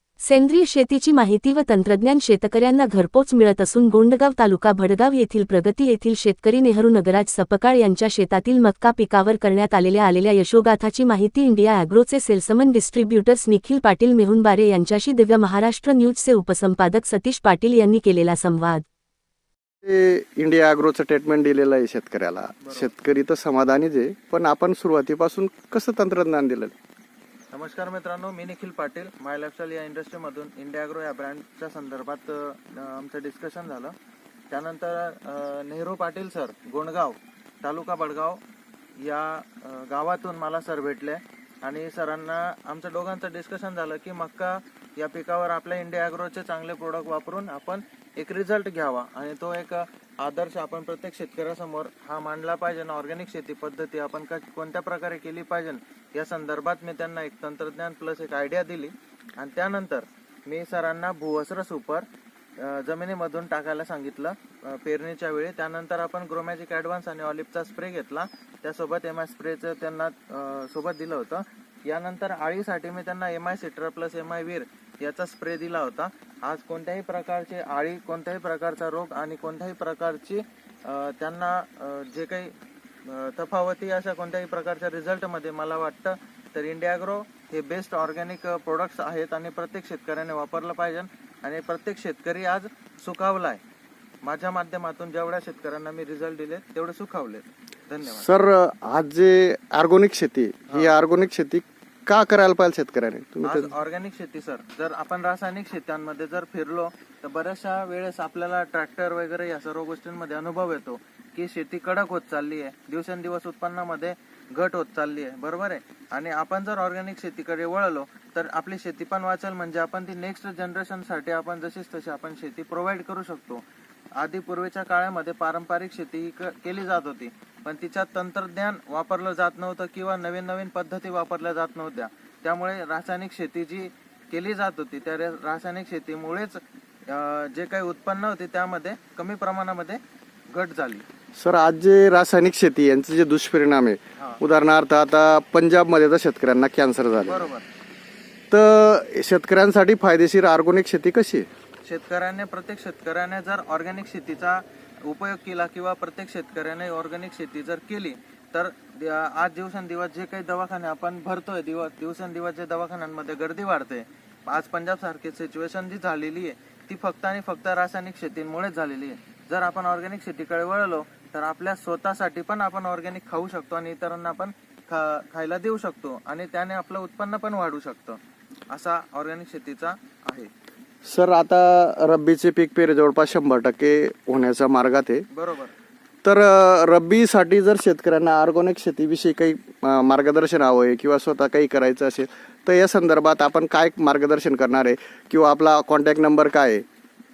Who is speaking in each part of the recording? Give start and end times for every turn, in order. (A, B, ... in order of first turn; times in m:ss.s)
0:00.2-0:18.8 A
0:19.8-0:26.7 B
0:22.6-0:22.9 C
0:27.5-0:33.9 C
0:34.5-0:38.4 C
0:39.0-1:02.0 C
1:02.6-1:22.5 C
1:23.1-1:33.6 C
1:34.2-1:38.3 C
1:38.2-1:43.7 B
1:40.7-1:40.9 C
1:43.4-2:03.6 C
2:04.2-2:21.1 C
2:21.4-2:27.5 B
2:24.2-2:24.4 C
2:27.2-2:27.7 C
2:28.5-2:31.5 B
2:31.8-3:00.5 C
3:01.0-3:05.2 B
3:05.3-3:05.7 C
3:06.2-3:16.8 B